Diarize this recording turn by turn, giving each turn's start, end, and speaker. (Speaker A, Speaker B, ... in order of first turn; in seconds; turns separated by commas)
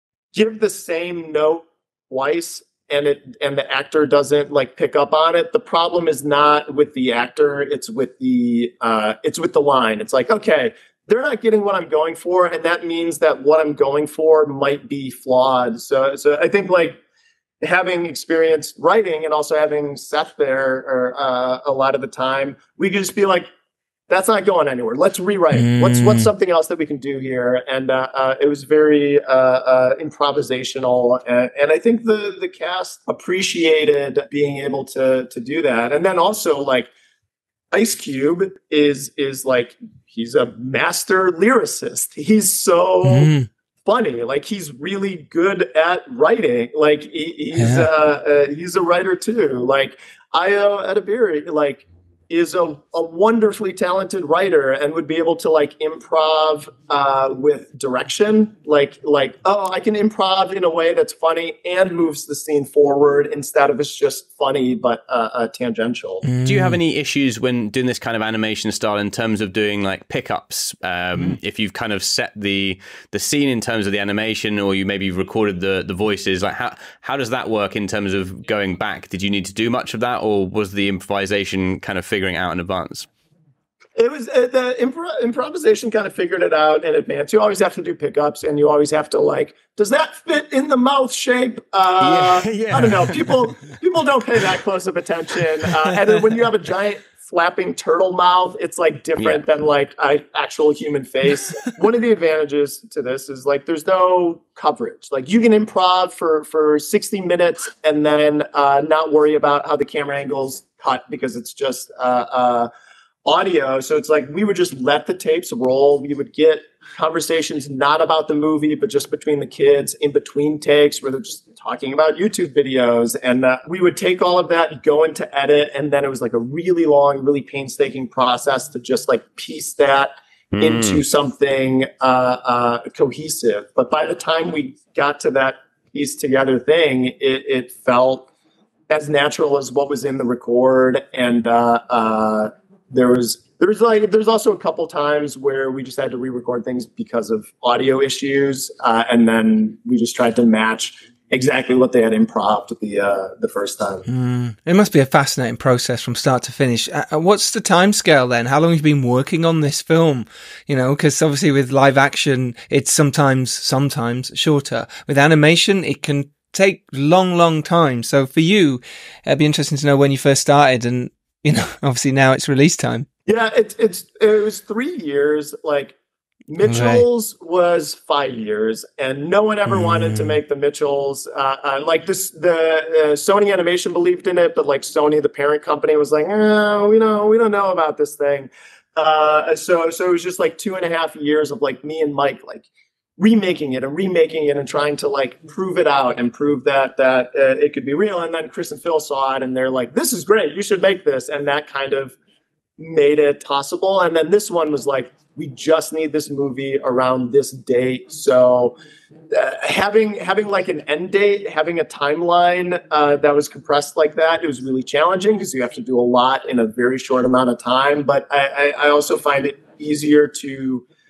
Speaker A: 0.3-17.0, Speaker A: 17.6-23.5, Speaker A: 24.1-36.9, Speaker B: 25.5-26.3, Speaker A: 37.7-43.3, Speaker B: 43.0-43.5, Speaker A: 43.9-66.3, Speaker B: 47.5-47.9, Speaker B: 66.2-66.8, Speaker C: 66.5-83.1, Speaker A: 84.0-112.7, Speaker C: 92.0-93.5, Speaker A: 113.2-138.3, Speaker C: 130.5-131.0, Speaker A: 138.9-154.1, Speaker B: 154.1-173.1, Speaker A: 173.3-176.0, Speaker A: 176.5-192.7, Speaker B: 176.6-177.1, Speaker B: 179.7-180.4, Speaker A: 193.2-202.2, Speaker A: 202.8-208.8, Speaker A: 209.3-220.8